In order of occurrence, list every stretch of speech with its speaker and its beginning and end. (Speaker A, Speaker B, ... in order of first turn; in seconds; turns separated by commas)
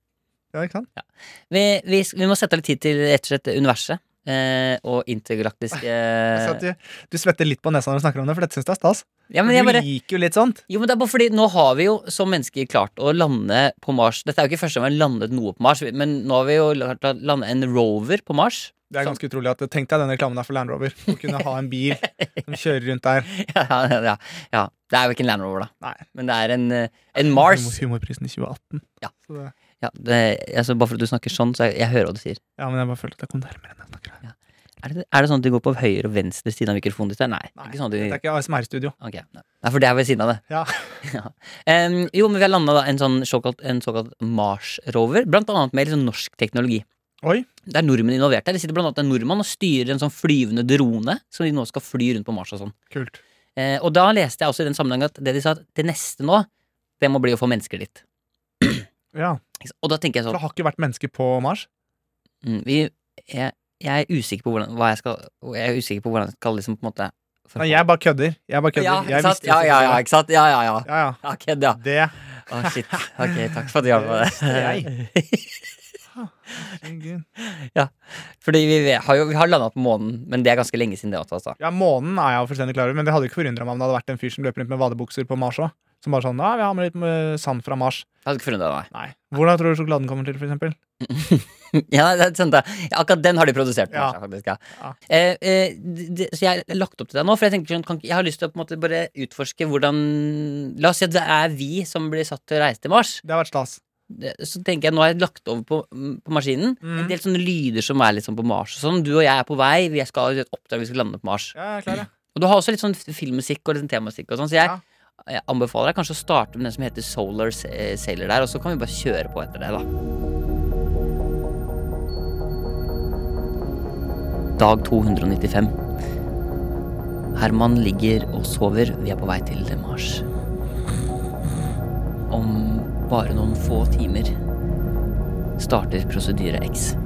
Speaker A: 0.5-0.9, Speaker B: 1.0-6.6, Speaker A: 6.3-10.6, Speaker B: 9.3-9.9, Speaker B: 10.7-19.1, Speaker A: 18.9-23.3, Speaker B: 23.3-27.8, Speaker A: 27.1-29.5, Speaker B: 29.8-32.4, Speaker A: 32.6-34.2, Speaker B: 34.2-38.2, Speaker A: 37.6-38.9, Speaker B: 39.0-40.4, Speaker A: 40.5-40.8, Speaker B: 41.0-46.8, Speaker A: 47.2-47.5, Speaker B: 47.7-52.7, Speaker A: 52.9-53.2, Speaker B: 53.5-56.5, Speaker B: 57.0-58.0, Speaker B: 58.6-58.9, Speaker A: 59.1-59.4, Speaker B: 59.6-60.4, Speaker A: 60.3-61.7, Speaker B: 62.4-67.8, Speaker A: 67.6-70.0, Speaker B: 68.8-71.8, Speaker A: 70.8-71.2, Speaker A: 71.8-74.9, Speaker B: 72.5-75.7, Speaker A: 76.1-77.2, Speaker B: 77.4-81.6, Speaker A: 81.6-88.0, Speaker B: 88.2-88.9, Speaker A: 88.9-90.8, Speaker B: 91.0-103.2, Speaker A: 93.9-94.2, Speaker A: 103.2-103.8, Speaker B: 104.1-111.5, Speaker A: 106.8-107.1, Speaker A: 111.5-112.1, Speaker B: 112.3-119.8, Speaker B: 124.6-125.7, Speaker B: 127.3-130.2, Speaker B: 132.3-134.3, Speaker B: 135.6-136.9